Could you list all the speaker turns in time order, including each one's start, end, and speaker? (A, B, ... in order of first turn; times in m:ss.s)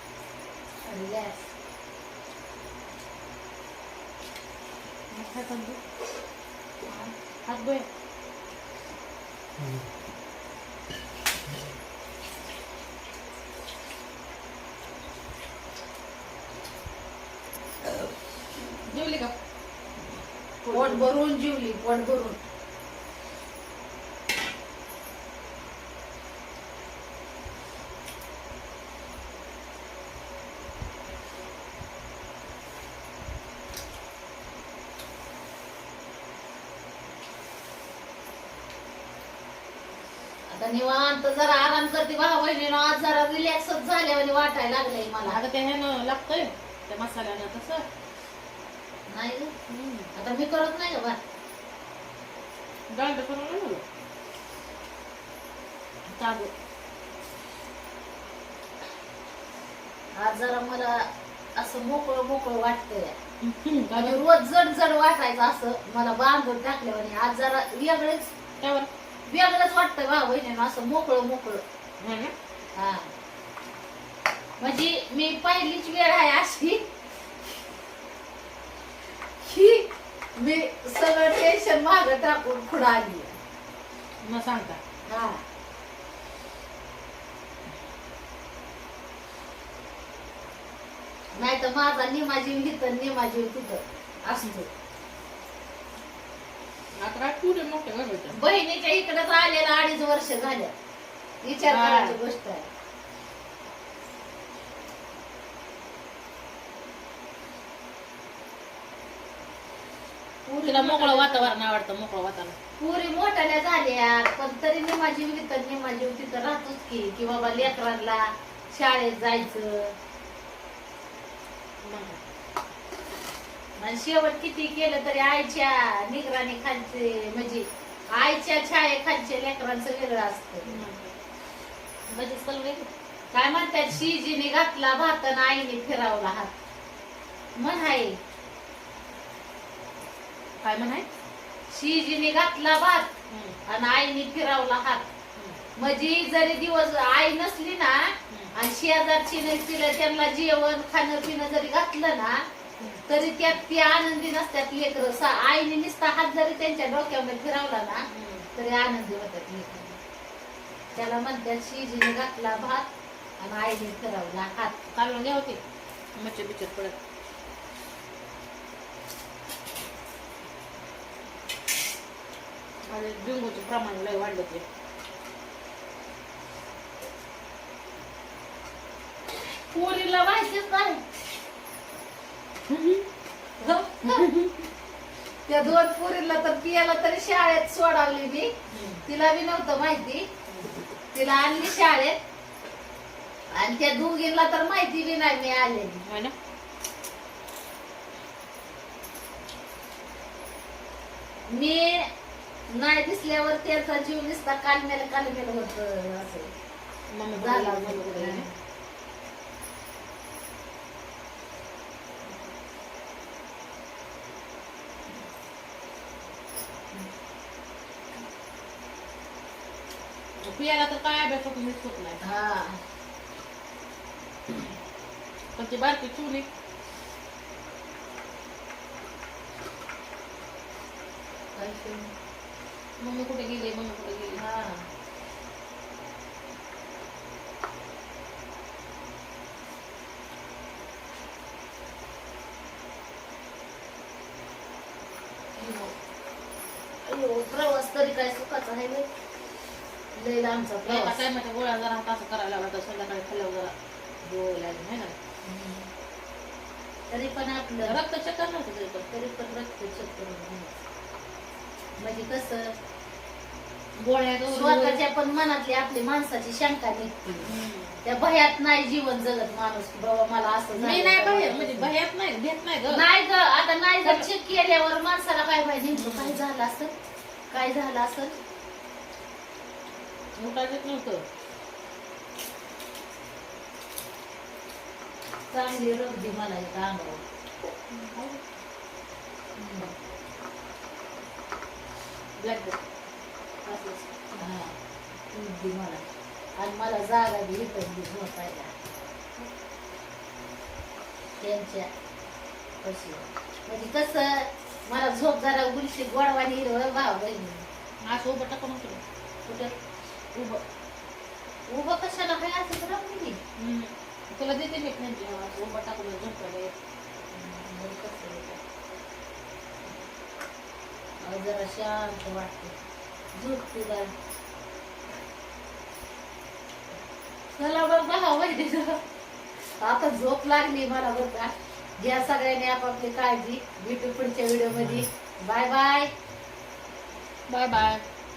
0:00.8-0:01.4 A
0:05.1-0:05.8 B
0:06.9-0:07.1 A
0:07.5-0:07.9 B
0:18.8-0:19.3 B
0:20.6-0:21.0 B
0:20.7-0:22.4 A
0:40.5-0:45.4 A
0:45.3-0:47.9 B
0:49.1-0:49.5 A
0:49.7-0:50.1 B
0:50.2-0:51.2 A
0:52.9-0:53.8 B
0:56.1-0:56.5 B
1:00.2-1:03.2 A
1:03.4-1:04.2 B
1:04.0-1:08.3 A
1:08.6-1:08.9 B
1:09.3-1:11.6 A
1:12.0-1:12.3 B
1:12.8-1:13.1 A
1:14.6-1:16.8 A
1:19.4-1:23.4 A
1:24.2-1:24.8 B
1:25.1-1:25.4 A
1:31.4-1:34.7 A
1:37.0-1:38.4 B
1:38.3-1:40.7 A
1:41.4-1:42.7 A
1:41.6-1:42.2 B
1:50.5-1:51.5 A
1:50.6-1:52.6 B
1:52.8-2:00.0 A
2:01.8-2:02.2 B
2:03.8-2:10.8 A
2:10.7-2:11.2 B
2:12.1-2:12.9 B
2:13.3-2:16.5 A
2:17.6-2:18.2 A
2:20.6-2:21.1 B
2:21.7-2:23.1 A
2:23.3-2:23.6 B
2:23.7-2:25.1 A
2:25.8-2:32.4 A
2:33.1-2:40.0 A
2:38.1-2:38.5 B
2:41.0-2:42.9 A
2:43.4-2:44.8 A
2:44.9-2:45.6 B
2:46.2-2:47.0 B
2:52.8-2:54.6 B
2:59.7-3:01.0 A
3:02.7-3:03.1 B
3:03.6-3:04.3 A
3:04.1-3:04.7 B
3:05.5-3:08.5 A
3:08.7-3:09.0 B
3:09.1-3:10.3 A
3:11.1-3:12.2 A
3:13.5-3:16.0 A
3:16.0-3:16.3 B
3:21.5-3:22.1 A
3:22.7-3:26.5 A
3:27.1-3:28.5 B
3:27.4-3:28.5 A
3:40.4-3:42.2 B
3:42.2-3:42.8 A
3:45.6-3:46.5 B
3:51.6-3:52.1 A
3:53.0-3:54.4 B
3:54.4-3:54.9 A
4:05.6-4:05.9 B
4:07.0-4:09.1 A
4:10.2-4:11.2 A
4:10.8-4:13.7 B
4:14.2-4:15.2 B
4:15.4-4:15.9 A
4:17.1-4:18.0 A
4:17.8-4:19.1 B
4:19.1-4:20.8 A
4:22.0-4:22.7 A
4:24.0-4:25.0 B
4:24.5-4:27.5 A
4:27.4-4:28.0 B
4:28.0-4:31.9 A
4:30.8-4:33.0 B
4:32.9-4:36.9 A
4:36.0-4:36.4 B
4:37.5-4:38.4 A
4:40.4-4:41.2 B
4:45.5-4:47.2 A
4:47.9-4:48.4 B
4:49.6-4:49.9 A
4:52.4-4:52.9 B
4:53.7-4:54.1 B
4:54.4-4:54.8 A
4:55.3-4:56.0 A
4:56.6-4:58.7 A
5:01.4-5:01.9 A
5:02.8-5:07.6 A
5:08.0-5:09.0 B
5:10.3-5:10.6 B
5:11.7-5:13.4 A
5:13.6-5:16.7 B
5:17.3-5:18.6 A
5:21.2-5:22.7 A
5:23.3-5:24.1 A
5:27.5-5:29.0 A
5:29.8-5:36.1 A
5:37.5-5:38.0 B